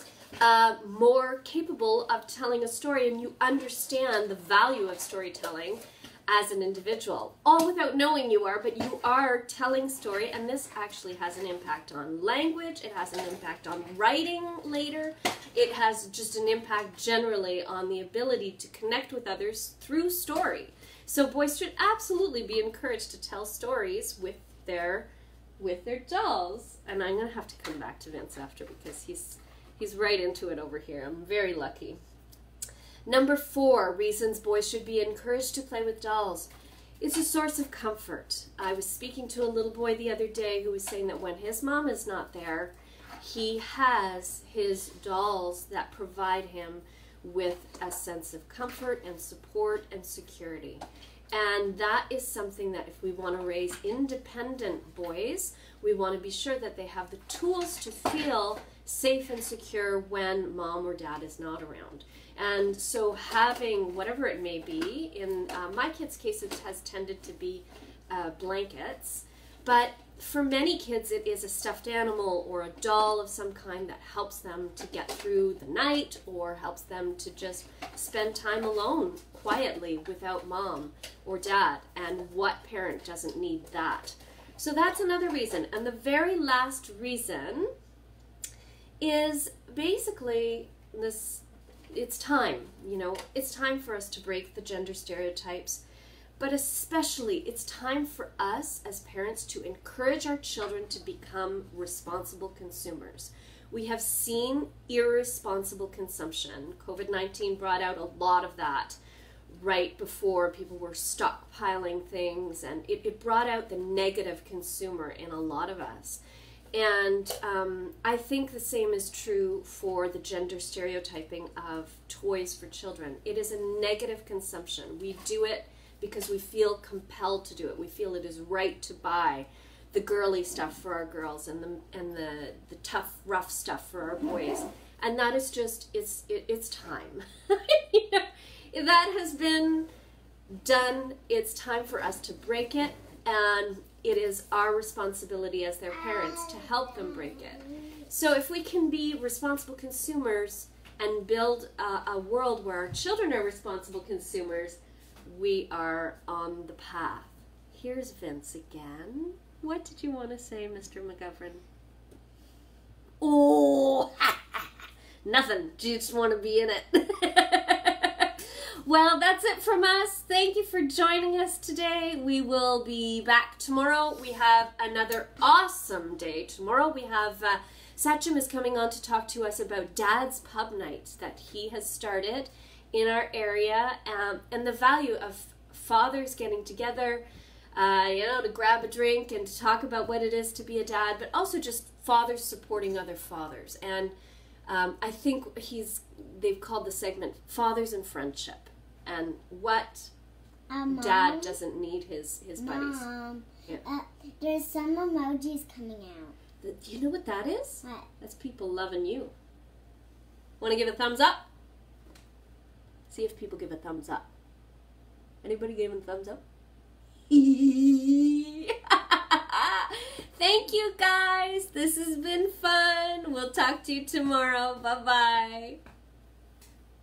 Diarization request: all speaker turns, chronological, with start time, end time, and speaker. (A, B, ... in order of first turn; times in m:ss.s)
0:00.4-0:32.0 A
0:33.0-1:27.7 A
1:29.0-1:35.8 A
1:36.4-1:56.2 A
1:56.7-2:19.9 A
2:20.5-2:41.6 A
2:25.9-2:28.0 B
2:43.2-2:44.7 A
2:45.2-3:14.1 A
3:14.7-3:20.1 A
3:20.7-3:21.6 B
3:20.9-3:23.1 A
3:22.6-3:26.3 B
3:26.6-3:29.3 A
3:27.8-3:28.1 B
3:30.6-3:31.5 A
3:33.1-3:34.3 A
3:35.4-3:36.4 A
3:37.3-3:45.8 A